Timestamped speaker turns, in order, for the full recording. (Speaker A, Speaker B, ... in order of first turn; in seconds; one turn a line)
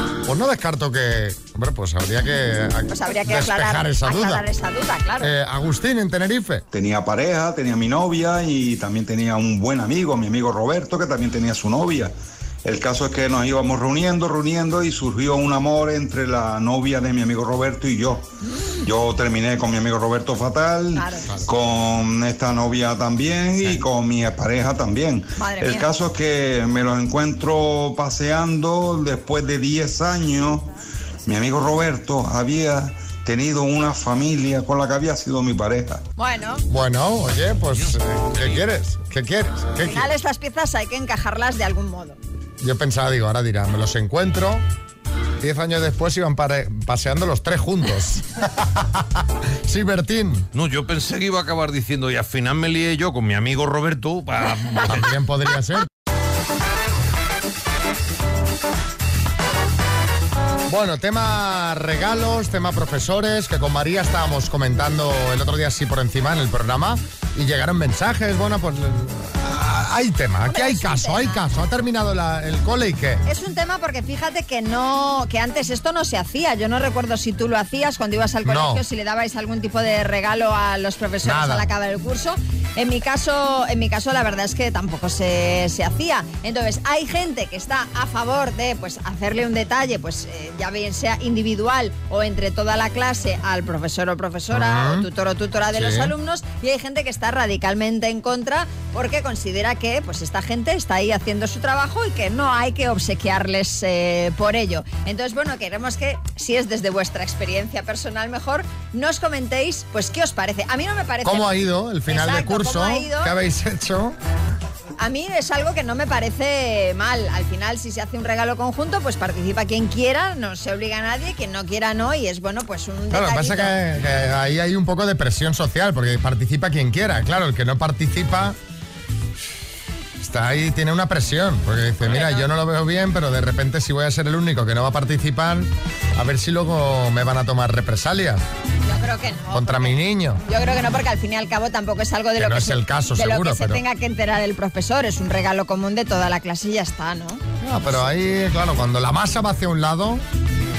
Speaker A: 0.2-4.5
Speaker B: 2.9-5.3
Speaker A: 5.2-6.6
Speaker C: 6.7-12.1
Speaker C: 12.7-18.3
Speaker B: 18.5-18.7
Speaker C: 18.8-30.7
Speaker B: 20.9-21.3
Speaker B: 25.4-25.9
Speaker C: 31.3-36.0
Speaker B: 36.2-36.6
Speaker A: 36.7-40.1
Speaker D: 37.7-38.6
Speaker B: 39.9-42.2
Speaker A: 42.6-44.6
Speaker A: 45.4-49.1
Speaker A: 49.7-50.5
Speaker D: 50.5-55.0
Speaker A: 54.8-55.9
Speaker A: 60.7-73.2
Speaker B: 70.5-71.4
Speaker B: 73.3-113.3
Speaker A: 78.4-78.8
Speaker A: 81.2-81.7
Speaker A: 94.5-95.1
Speaker A: 95.7-96.1
Speaker A: 111.2-114.2
Speaker B: 115.0-123.8
Speaker A: 123.1-128.6
Speaker A: 130.2-138.4
Speaker B: 132.1-132.5
Speaker B: 138.8-147.4
Speaker A: 139.5-140.4
Speaker A: 142.4-143.8
Speaker A: 147.6-150.2